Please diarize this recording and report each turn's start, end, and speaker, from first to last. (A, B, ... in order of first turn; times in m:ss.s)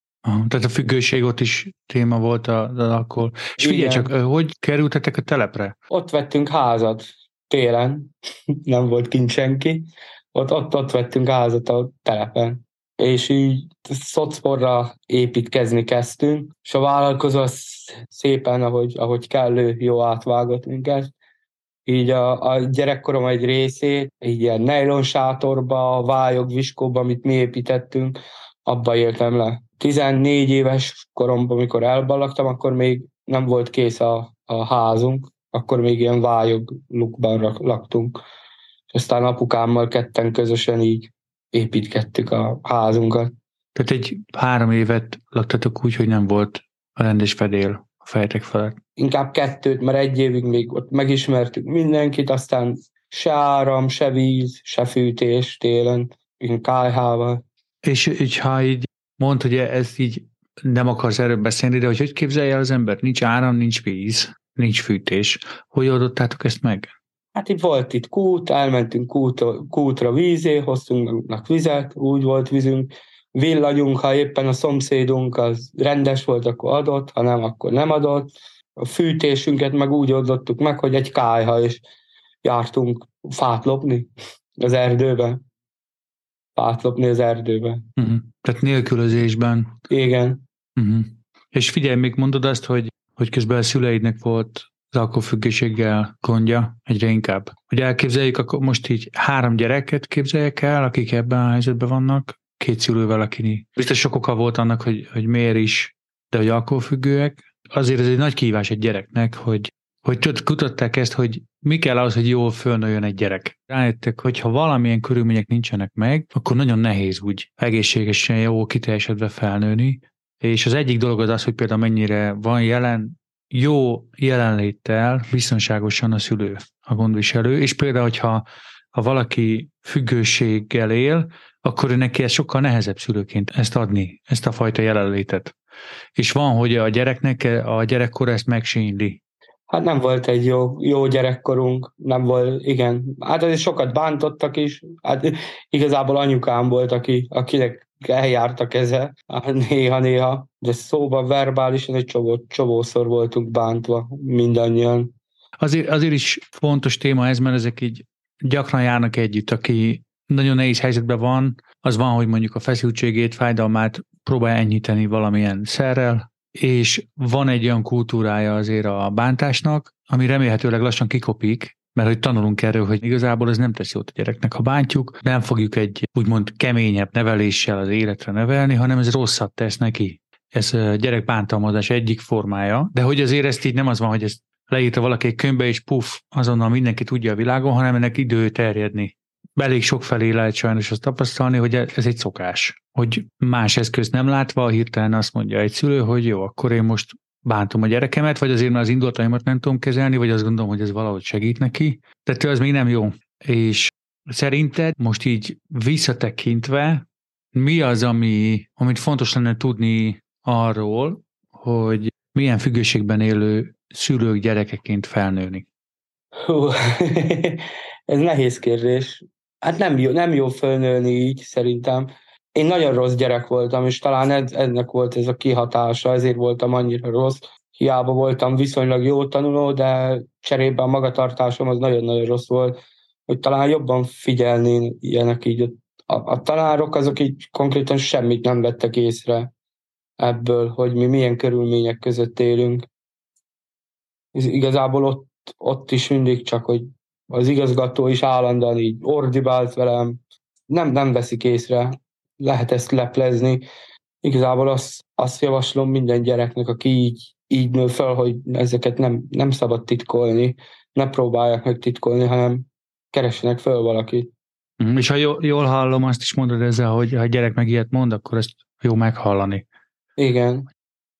0:00.2-0:05.8 A
0:03.6-0:04.1 B
0:05.9-0:08.1 B
0:08.7-0:21.1 B
0:21.9-0:38.2 B
0:38.9-0:43.3 B
0:43.8-0:48.8 A
0:49.0-0:57.4 B
0:57.8-1:06.9 A
1:07.3-1:21.8 B
1:22.4-1:25.4 B
1:26.6-1:27.9 B
1:28.0-1:29.8 A
1:29.9-1:30.4 B
1:30.8-2:15.6 A
2:16.2-2:19.2 A
2:19.7-2:35.1 B
2:35.6-3:35.7 A
3:36.4-3:52.8 B
3:53.3-3:59.5 B
4:00.2-4:02.9 B
4:04.3-4:13.6 B
4:14.2-4:24.3 B
4:24.8-4:29.7 A
4:30.2-4:30.7 B